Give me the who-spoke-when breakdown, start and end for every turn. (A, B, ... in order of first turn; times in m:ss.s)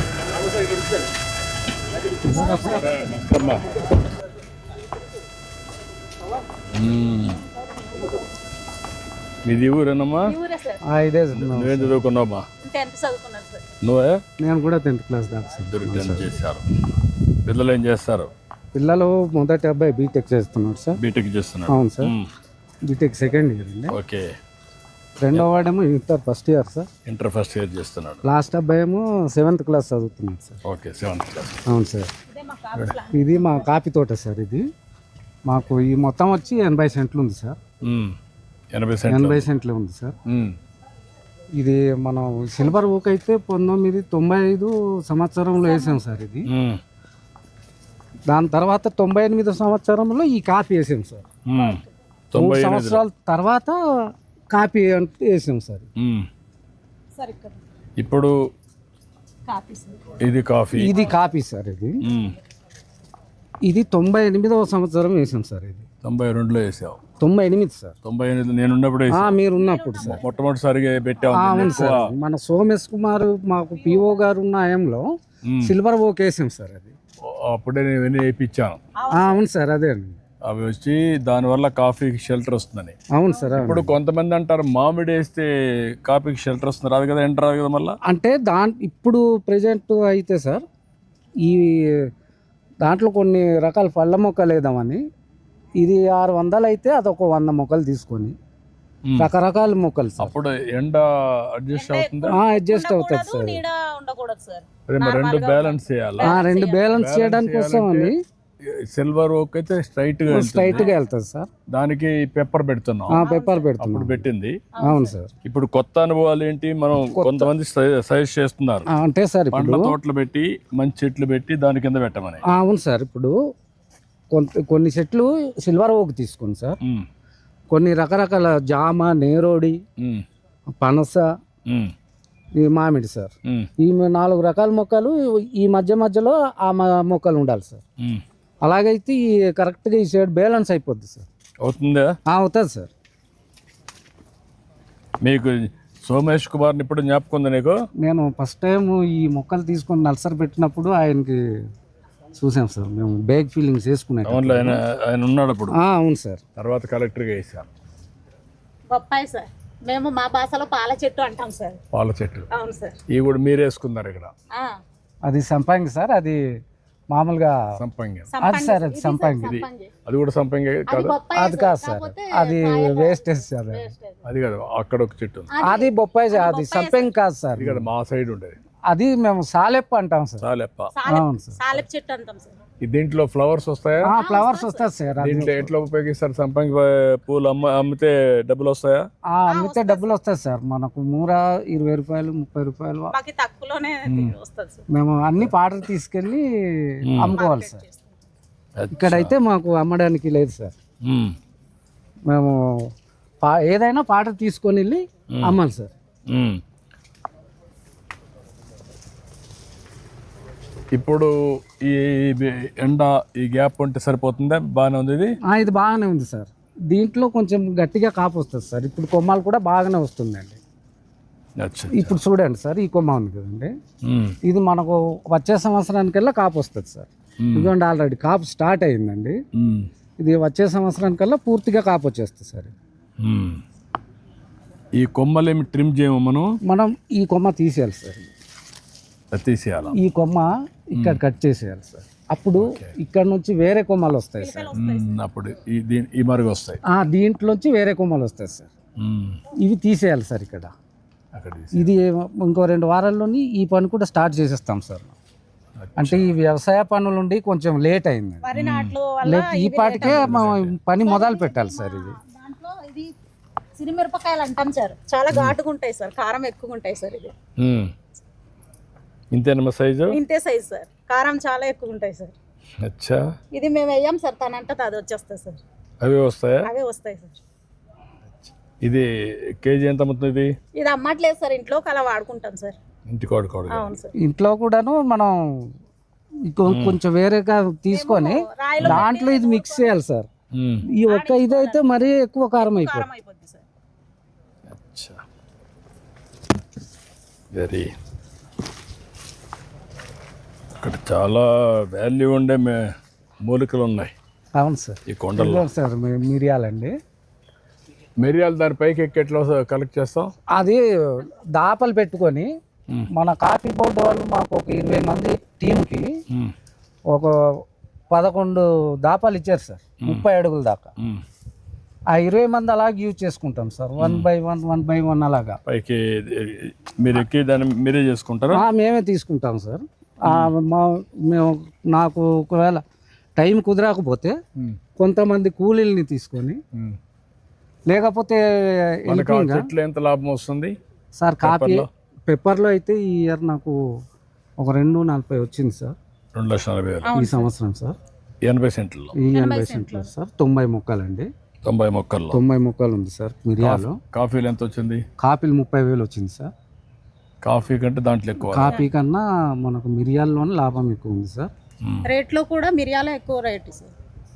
0:02.4-0:02.8 A
0:02.7-0:03.6 B
0:06.7-0:07.4 B
0:09.5-0:10.3 B
0:10.2-0:10.8 A
0:10.8-0:12.0 C
0:11.3-0:12.4 B
0:12.6-0:13.6 A
0:13.8-0:14.2 B
0:14.4-0:16.3 C
0:15.7-0:16.7 B
0:17.5-0:18.3 B
0:18.7-0:21.0 C
0:21.0-0:22.3 B
0:21.7-0:22.2 C
0:22.9-0:24.0 C
0:23.9-0:24.3 B
0:25.2-0:26.9 C
0:27.1-0:28.2 B
0:28.2-0:30.6 C
0:30.6-0:31.6 B
0:31.7-0:32.1 C
0:32.3-0:33.7 A
0:33.1-0:34.6 C
0:35.5-0:37.6 C
0:37.8-0:38.2 B
0:38.7-0:39.5 B
0:39.1-0:40.2 C
0:40.3-0:40.6 B
0:41.6-0:46.5 C
0:45.6-0:46.0 A
0:46.5-0:46.8 B
0:48.3-0:51.3 C
0:51.5-0:51.8 B
0:51.6-0:51.9 A
0:52.3-0:53.0 B
0:52.3-0:53.8 C
0:54.5-0:55.9 C
0:56.0-0:56.3 B
0:57.2-0:57.6 A
0:58.0-0:58.3 B
0:59.5-1:00.1 A
1:00.2-1:00.9 B
1:00.8-1:02.0 C
1:00.9-1:01.1 A
1:02.0-1:02.4 B
1:03.7-1:05.9 C
1:06.0-1:07.0 B
1:07.2-1:08.0 C
1:08.0-1:09.4 B
1:09.1-1:10.2 C
1:09.3-1:10.5 A
1:10.0-1:12.0 B
1:11.3-1:15.0 C
1:11.4-1:11.9 A
1:13.8-1:14.2 A
1:15.4-1:15.8 B
1:15.6-1:17.0 C
1:17.2-1:18.8 B
1:19.0-1:19.4 A
1:19.1-1:20.2 C
1:20.4-1:23.0 B
1:23.1-1:24.0 C
1:23.3-1:23.7 A
1:23.6-1:25.5 B
1:26.0-1:28.0 B
1:28.1-1:30.6 C
1:31.5-1:32.1 C
1:32.8-1:35.0 C
1:35.8-1:38.4 C
1:39.2-1:40.3 C
1:40.2-1:42.4 B
1:41.7-1:47.0 A
1:42.3-1:43.6 C
1:44.9-1:48.1 B
1:46.2-1:48.2 C
1:48.6-1:50.9 B
1:50.3-1:51.5 C
1:51.7-1:53.2 B
1:53.1-1:54.2 C
1:53.2-1:53.7 A
1:53.8-1:54.6 B
1:54.8-1:55.2 A
1:54.8-1:55.3 C
1:55.4-1:58.9 B
1:57.1-1:57.5 C
1:58.9-2:00.0 C
1:59.5-2:02.4 B
2:02.5-2:03.4 C
2:04.3-2:06.8 C
2:07.7-2:09.8 C
2:10.0-2:10.2 B
2:10.7-2:11.2 C
2:11.7-2:11.9 B
2:12.6-2:17.8 C
2:18.6-2:21.3 C
2:21.6-2:22.1 B
2:22.3-2:22.9 C
2:25.2-2:27.8 B
2:28.0-2:31.4 C
2:32.4-2:34.8 C
2:34.2-2:35.8 B
2:35.7-2:36.4 C
2:36.6-2:37.7 B
2:38.9-2:41.8 A
2:41.9-2:42.5 B
2:42.5-2:43.0 A
2:43.1-2:44.3 B
2:44.5-2:44.8 A
2:45.2-2:46.4 C
2:47.1-2:47.6 C
2:47.8-2:48.3 B
2:48.3-2:49.9 A
2:48.4-2:49.6 C
2:49.4-2:51.2 B
2:50.9-2:54.2 A
2:51.4-2:53.9 C
2:54.2-2:55.5 B
2:55.5-2:57.1 A
2:55.6-2:57.9 C
2:57.6-2:58.6 B
2:58.9-3:00.4 C
3:00.4-3:00.9 B
3:00.9-3:02.6 A
3:01.1-3:01.8 C
3:02.8-3:04.1 B
3:04.0-3:05.7 C
3:04.1-3:04.8 A
3:05.2-3:09.0 B
3:09.3-3:13.1 C
3:09.5-3:10.1 A
3:13.1-3:14.9 A
3:14.1-3:14.4 B
3:14.9-3:17.8 C
3:17.1-3:17.4 B
3:17.2-3:18.1 A
3:18.8-3:19.4 B
3:18.9-3:20.7 C
3:21.0-3:21.4 B
3:22.3-3:22.9 C
3:23.4-3:25.9 C
3:26.3-3:26.6 B
3:30.9-3:35.3 B
3:35.5-3:40.6 C
3:41.6-3:42.2 B
3:41.9-3:43.7 C
3:44.0-3:44.4 B
3:44.4-3:49.4 C
3:47.4-3:47.7 B
3:49.6-3:49.9 B
3:50.2-3:52.7 C
3:53.2-3:53.6 B
3:55.0-3:56.5 B
3:56.7-3:58.3 C
3:59.3-3:59.9 B
4:00.0-4:04.7 C
4:02.6-4:02.9 B
4:04.4-4:05.2 A
4:04.7-4:06.8 B
4:06.9-4:08.7 C
4:09.0-4:09.4 B
4:09.6-4:10.7 C
4:11.3-4:11.9 B
4:11.7-4:15.2 C
4:15.8-4:16.3 B
4:16.0-4:18.5 C
4:18.4-4:20.5 A
4:18.6-4:19.0 B
4:19.2-4:22.2 C
4:20.0-4:20.7 B
4:21.0-4:23.1 A
4:23.8-4:27.3 A
4:27.6-4:27.9 B
4:29.3-4:30.2 B
4:30.1-4:32.3 A
4:32.8-4:33.2 B
4:33.5-4:35.6 A
4:36.0-4:36.7 B
4:36.6-4:37.3 A
4:38.8-4:39.1 B
4:39.6-4:40.5 B
4:40.8-4:42.8 A
4:43.1-4:43.9 B
4:43.7-4:44.1 A
4:44.2-4:45.7 C
4:46.5-4:50.3 C
4:46.7-4:47.0 B
4:47.9-4:50.0 A
4:48.8-4:49.1 B
4:50.5-4:50.8 B
4:50.9-4:53.1 C
4:51.1-4:51.8 A
4:52.6-4:53.6 A
4:54.7-4:55.2 B
4:57.5-4:57.9 B
5:00.8-5:02.8 B
5:03.4-5:04.1 B
5:04.6-5:07.0 C
5:05.1-5:05.7 B
5:08.2-5:10.3 B
5:10.5-5:12.5 C
5:13.1-5:16.1 C
5:17.1-5:17.4 C
5:18.1-5:20.9 C
5:22.1-5:25.6 C
5:24.0-5:24.3 B
5:25.7-5:28.6 B
5:28.5-5:32.8 C
5:30.3-5:30.5 B
5:33.4-5:34.4 C
5:35.0-5:36.6 C
5:37.9-5:39.7 C
5:39.1-5:40.7 B
5:41.2-5:43.8 C
5:41.4-5:41.9 B
5:44.6-5:46.0 C
5:46.4-5:47.1 B
5:47.0-5:47.5 A
5:47.1-5:48.0 C
5:48.4-5:49.2 B
5:49.2-5:51.3 C
5:49.3-5:50.1 A
5:51.6-5:52.4 B
5:52.3-5:54.0 C
5:53.6-5:55.0 B
5:55.2-5:56.5 C
5:57.4-5:58.8 B
5:58.5-6:01.5 C
6:02.0-6:03.9 A